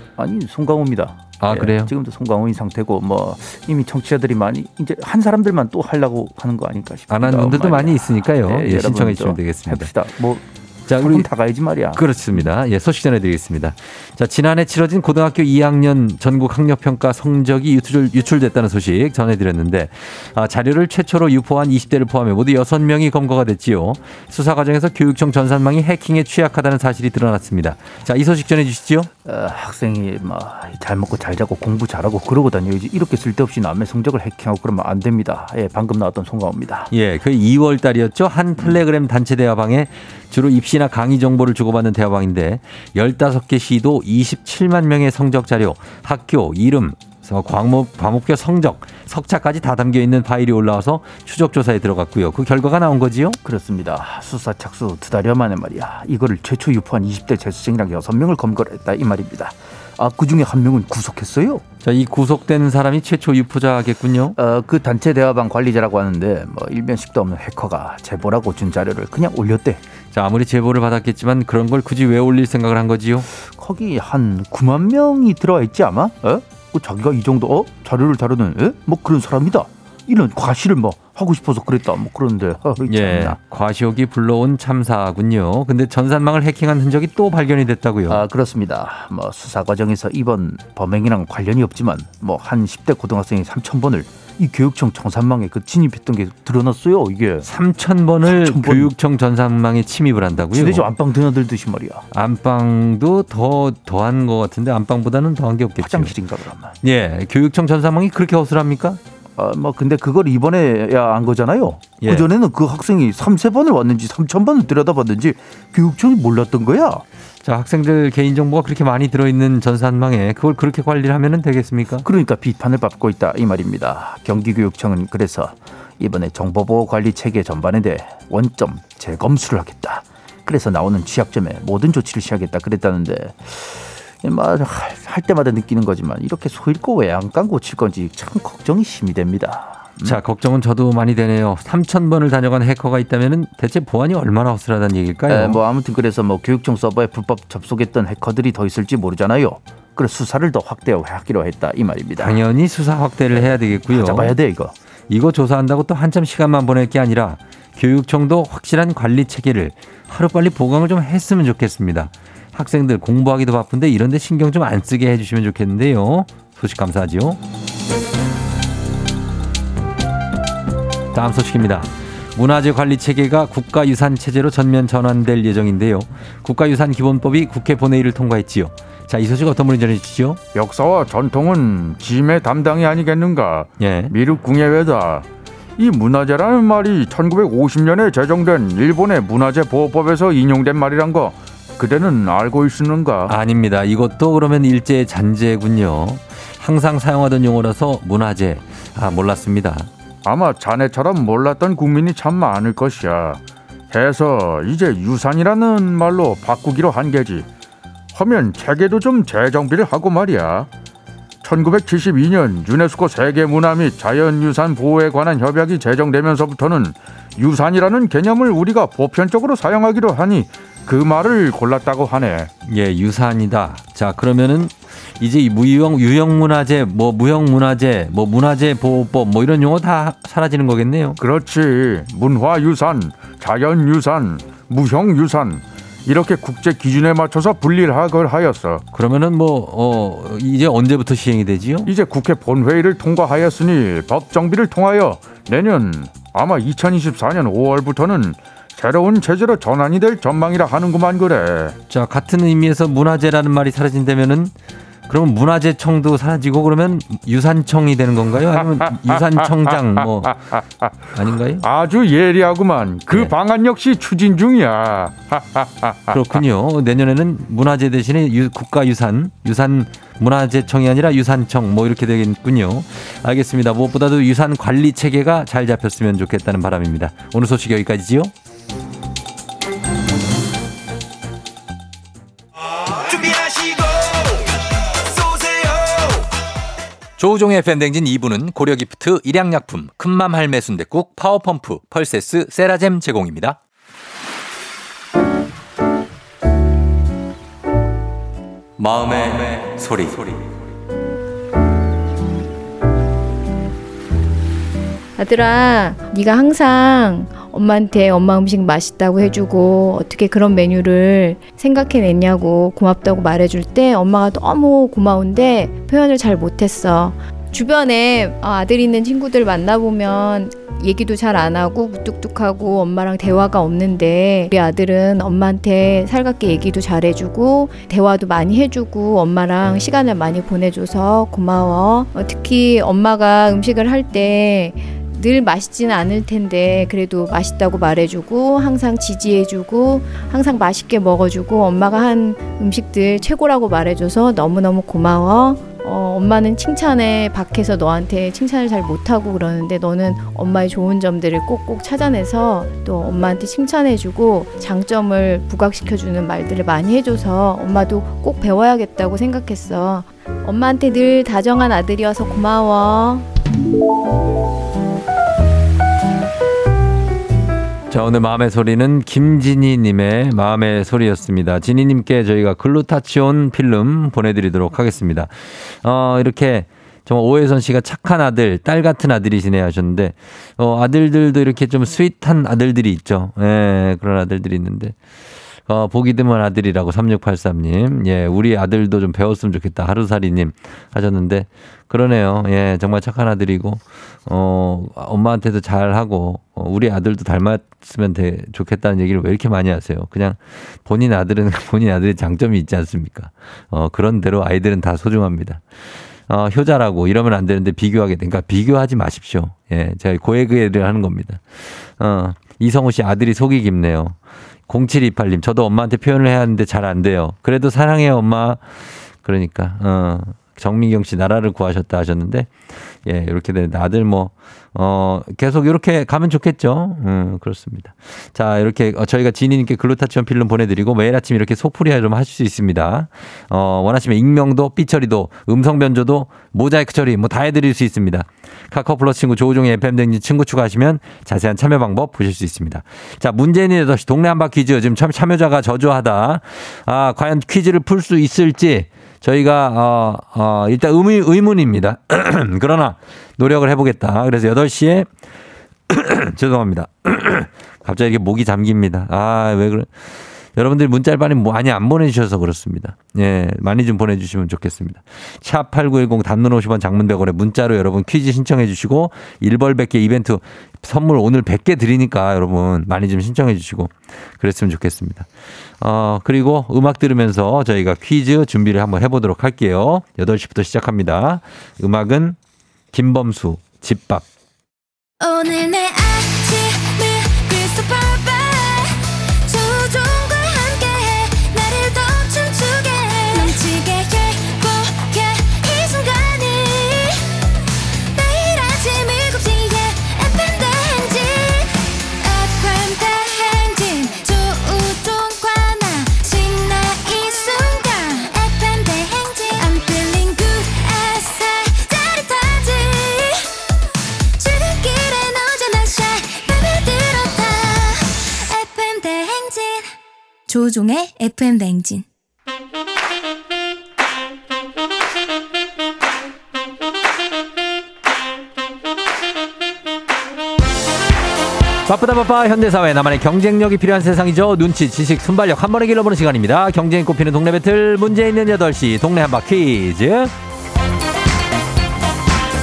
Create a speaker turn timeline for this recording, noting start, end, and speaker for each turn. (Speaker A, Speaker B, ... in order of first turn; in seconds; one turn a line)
Speaker A: 0.2-12.0
Speaker B: 1.4-1.9
Speaker B: 7.1-9.9
Speaker B: 10.9-11.3
Speaker B: 11.9-29.1
Speaker A: 29.2-36.9
Speaker B: 36.9-53.4
Speaker A: 53.4-61.6
Speaker B: 61.8-64.4
Speaker A: 64.4-69.8
Speaker B: 70.1-73.3
Speaker A: 73.4-83.4
Speaker B: 82.8-88.2
Speaker A: 88.1-97.5
Speaker B: 97.4-100.9
Speaker A: 98.3-98.9
Speaker A: 100.5-102.0
Speaker B: 102.1-106.2
Speaker A: 105.8-106.8
Speaker B: 106.8-109.0
Speaker A: 109.4-117.0
Speaker B: 112.0-112.3
Speaker B: 117.4-122.1
Speaker A: 122.0-140.2
Speaker B: 140.0-145.6
Speaker A: 145.3-152.4
Speaker B: 152.2-154.4
Speaker A: 153.4-154.7
Speaker B: 155.1-167.4
Speaker B: 171.1-180.4
Speaker C: 180.5-185.3
Speaker B: 183.8-184.1
Speaker C: 185.8-193.3
Speaker B: 193.3-199.9
Speaker C: 200.2-207.5
Speaker C: 208.1-210.7
Speaker C: 211.4-222.5
Speaker B: 222.7-231.2
Speaker C: 231.2-238.8
Speaker B: 238.9-241.9
Speaker C: 241.9-251.8
Speaker B: 251.9-254.5
Speaker B: 255.1-260.4
Speaker C: 258.8-260.9
Speaker B: 261.1-261.6
Speaker C: 261.6-266.2
Speaker B: 266.1-278.3
Speaker B: 287.2-293.6
Speaker B: 298.8-300.5
Speaker D: 305.2-363.3
Speaker B: 367.9-385.0
Speaker B: 385.7-405.6
Speaker B: 406.3-414.2
Speaker B: 414.7-455.1
Speaker B: 455.9-475.3
Speaker B: 475.8-482.4
Speaker B: 482.9-484.3
Speaker E: 485.2-497.2
Speaker E: 498.1-513.5
Speaker E: 514.4-520.0
Speaker E: 520.5-522.0
Speaker B: 531.9-540.3